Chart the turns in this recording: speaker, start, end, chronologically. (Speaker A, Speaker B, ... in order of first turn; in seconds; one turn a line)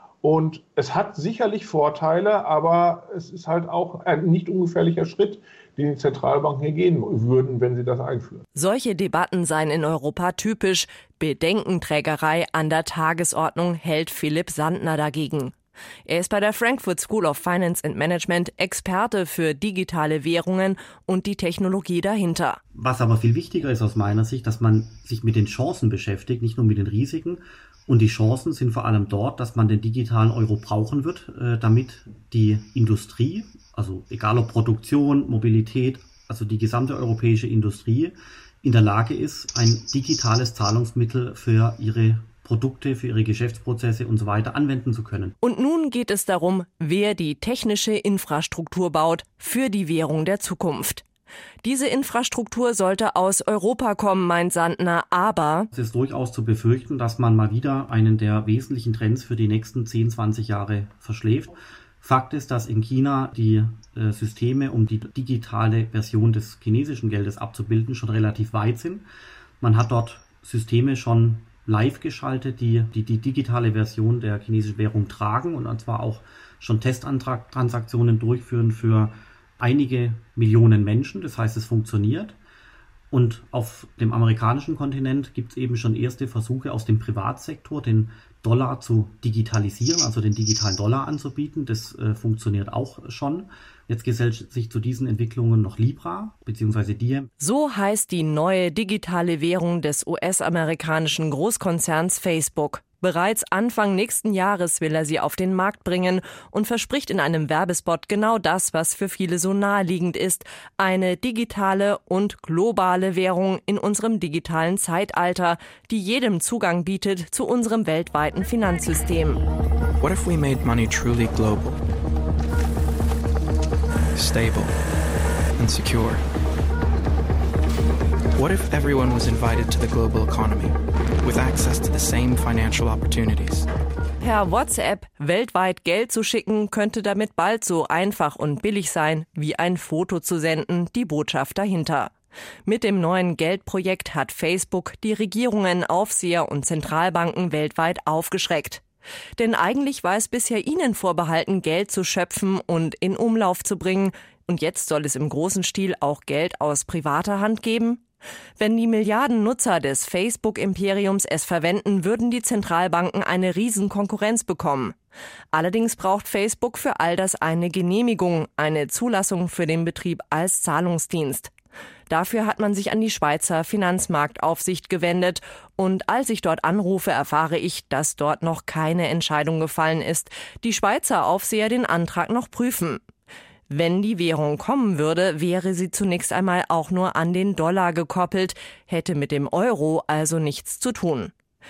Speaker A: 0.2-8.4
Speaker B: 8.5-15.5
Speaker B: 16.1-22.6
Speaker C: 22.7-45.4
Speaker B: 45.4-51.0
Speaker B: 51.6-55.7
Speaker C: 55.7-69.0
Speaker C: 69.6-82.4
Speaker C: 83.1-97.3
Speaker B: 97.4-119.4
Speaker D: 120.0-121.8
Speaker D: 124.1-124.8
Speaker D: 125.6-126.2
Speaker D: 128.3-133.7
Speaker B: 134.2-142.1
Speaker B: 142.7-148.8
Speaker B: 149.4-158.0
Speaker B: 158.6-164.9
Speaker B: 165.5-171.5
Speaker B: 172.1-183.0
Speaker B: 183.7-191.3